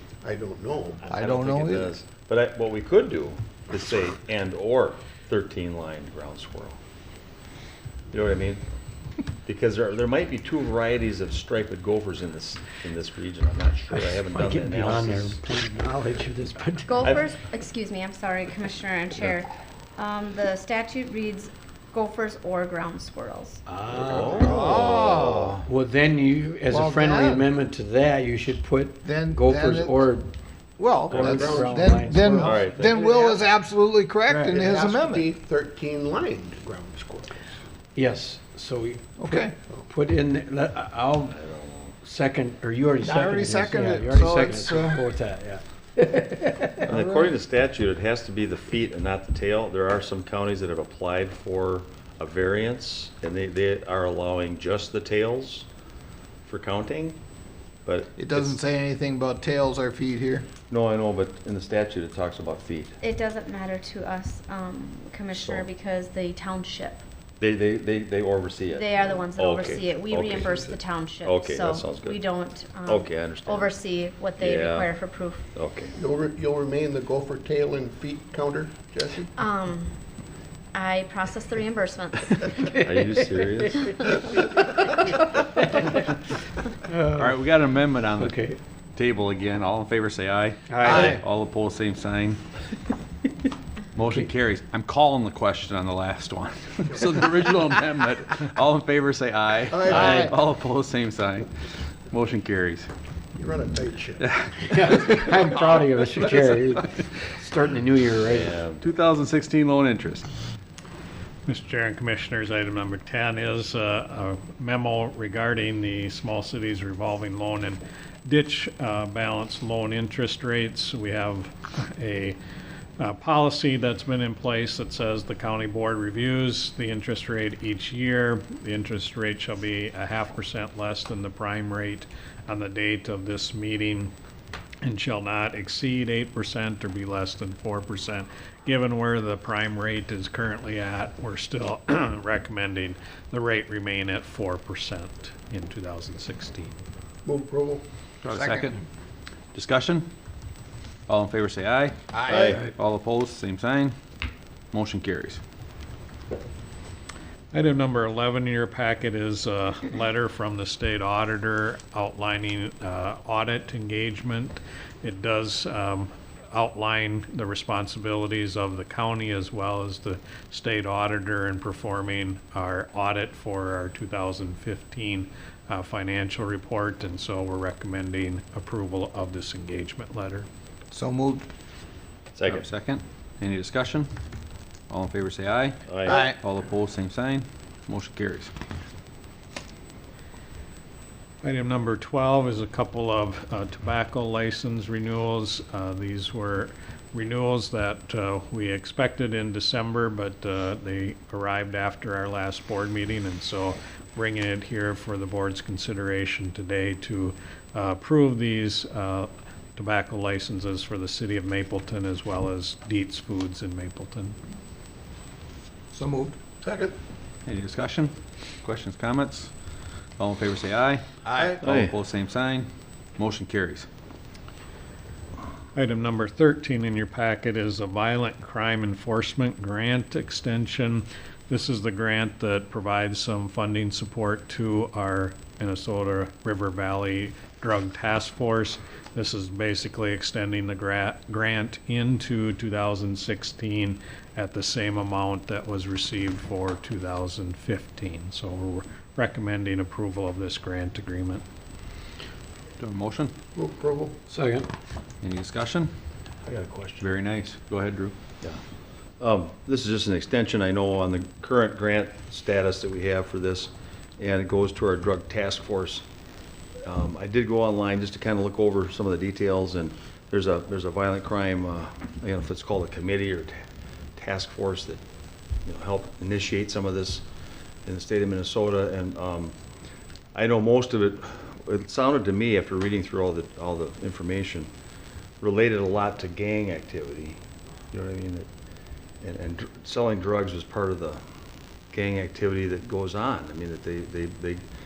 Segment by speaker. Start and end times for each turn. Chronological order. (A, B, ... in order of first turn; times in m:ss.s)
0:00.2-0:01.1 A
0:01.1-0:01.9 B
0:01.1-0:06.8 C
0:08.1-0:08.6 C
0:09.4-0:15.4 C
0:13.9-0:17.2 D
0:16.8-0:23.6 E
0:23.7-0:24.7 D
0:23.9-0:25.6 C
0:24.3-0:25.6 B
0:25.6-0:30.3 D
0:26.7-0:27.4 B
0:29.0-0:30.1 B
0:30.8-0:35.3 B
0:31.1-0:32.8 D
0:31.4-0:31.8 A
0:32.3-0:33.0 C
0:32.9-0:33.4 A
0:34.3-0:34.5 D
0:34.5-0:37.5 A
0:37.9-0:41.4 D
0:39.2-0:39.5 B
0:41.2-0:42.0 C
0:42.0-0:46.9 D
0:43.0-0:45.0 B
0:46.8-0:47.3 B
0:46.8-0:55.7 C
0:56.4-0:57.2 C
0:57.8-0:58.6 C
0:58.2-1:00.5 B
1:00.7-1:03.0 C
1:03.0-1:07.0 E
1:05.3-1:05.7 C
1:07.4-1:12.2 C
1:08.7-1:15.5 E
1:12.8-1:13.7 C
1:14.4-1:14.9 C
1:15.5-1:15.9 C
1:16.0-1:19.3 A
1:19.4-1:20.0 E
1:20.7-1:22.6 E
1:22.7-1:23.9 C
1:22.8-1:23.8 D
1:25.6-1:25.9 D
1:26.9-1:27.4 D
1:27.1-1:28.4 F
1:28.2-1:28.6 D
1:29.0-1:32.4 F
1:30.7-1:31.2 D
1:33.9-1:41.5 F
1:39.7-1:40.3 A
1:42.0-1:42.9 F
1:43.4-1:44.2 A
1:44.2-1:47.0 F
1:44.7-1:48.6 D
1:48.2-1:48.8 C
1:48.8-1:50.3 F
1:51.4-2:02.4 G
2:03.0-2:14.1 G
2:14.8-2:26.8 G
2:27.2-2:27.8 A
2:28.2-2:28.8 F
2:28.3-2:28.7 B
2:29.5-2:30.1 F
2:31.1-2:34.0 F
2:32.1-2:32.6 B
2:32.3-2:32.6 C
2:34.7-2:35.4 F
2:37.5-3:00.5 G
3:00.9-3:01.4 B
3:02.3-3:02.6 C
3:02.4-3:04.1 F
3:04.9-3:08.5 F
3:05.9-3:06.2 C
3:06.0-3:06.3 B
3:11.4-3:34.4 G
3:35.9-3:36.4 B
3:36.6-3:36.9 A
3:37.4-3:39.5 F
3:40.2-3:43.9 F
3:41.6-3:41.9 C
3:45.7-4:11.4 G
4:12.8-4:13.3 F
4:13.5-4:14.2 A
4:14.3-4:14.7 D
4:15.2-4:15.9 F
4:16.4-4:17.1 C
4:17.0-4:18.1 F
4:19.2-4:26.0 C
4:26.8-4:33.6 C
4:34.2-4:35.0 C
4:35.6-4:37.2 C
4:37.8-4:39.5 C
4:40.3-4:44.7 C
4:45.4-4:47.4 C
4:47.9-4:48.5 C
4:49.2-4:51.2 C
4:51.9-4:54.6 C